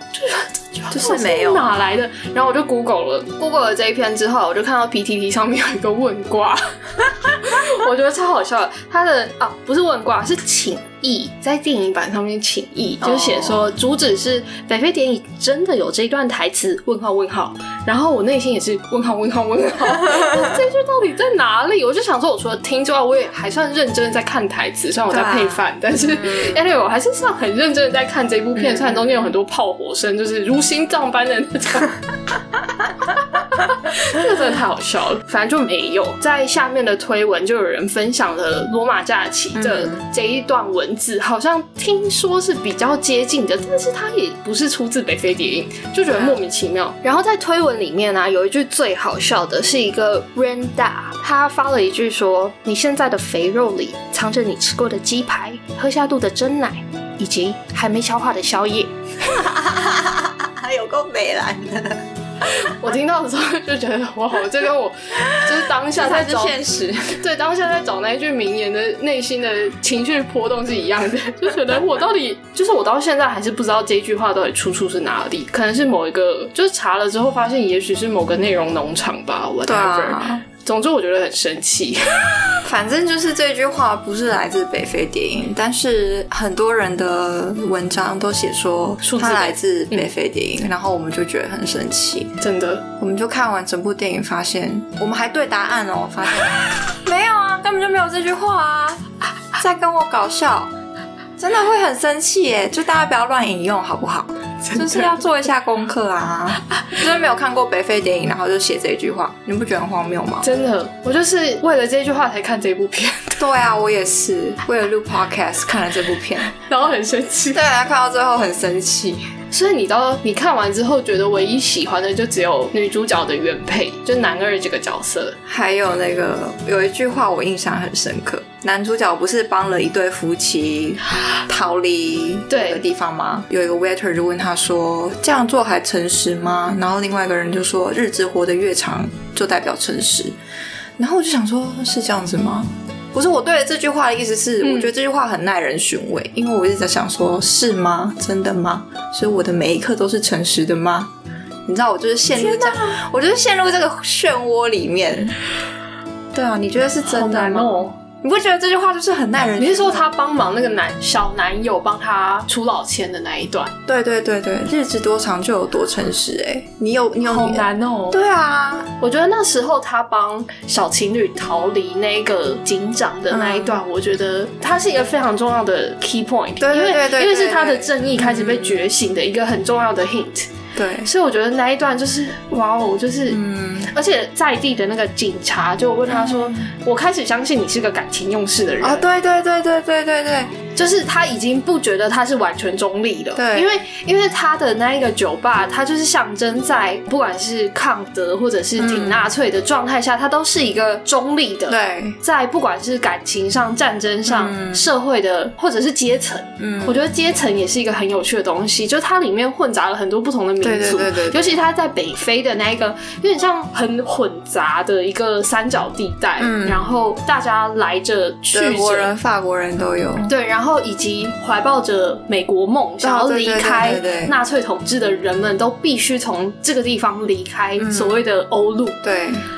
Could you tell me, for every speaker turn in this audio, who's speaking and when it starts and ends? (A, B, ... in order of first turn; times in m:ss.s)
0:00.1-0:32.0 A
0:00.9-0:01.8 B
0:13.0-0:13.7 B
0:25.1-0:26.6 B
0:28.6-0:29.3 B
0:33.2-0:58.9 A
0:39.5-0:40.1 B
0:46.1-0:46.4 B
0:59.2-1:02.0 B
1:02.5-1:06.6 A
1:05.9-1:07.2 B
1:07.2-1:22.4 A
1:19.6-1:20.4 B
1:22.6-1:32.4 B
1:29.0-1:30.1 A
1:32.4-1:32.8 A
1:33.0-1:39.0 B
1:39.6-1:40.7 B
1:41.4-1:50.5 B
1:44.6-1:45.2 A
1:50.4-1:53.4 A
1:53.4-1:56.6 B
1:56.6-1:57.6 A
1:57.5-1:59.2 B
1:59.5-2:05.4 A
2:05.4-2:20.3 B
2:12.5-2:12.8 A
2:21.0-2:31.1 B
2:24.6-2:24.9 A
2:31.7-2:35.4 B
2:32.3-2:33.0 A
2:36.3-2:40.1 B
2:37.1-2:37.9 A
2:39.6-2:43.7 A
2:43.9-2:48.9 B
2:47.2-2:48.2 A
2:49.0-3:09.0 A
2:53.3-2:53.8 B
2:56.6-2:58.8 B
3:00.7-3:01.1 B
3:03.3-3:03.9 B
3:06.1-3:06.7 B
3:08.8-3:10.6 B
3:10.7-3:39.1 A
3:13.3-3:13.7 B
3:18.8-3:19.3 B
3:21.7-3:22.2 B
3:24.3-3:24.8 B
3:26.6-3:27.0 B
3:30.6-3:31.6 B
3:36.4-3:36.9 B
3:38.5-3:40.3 B
3:40.3-3:49.0 A
3:43.0-3:44.4 B
3:47.8-3:48.2 B
3:49.0-3:49.4 B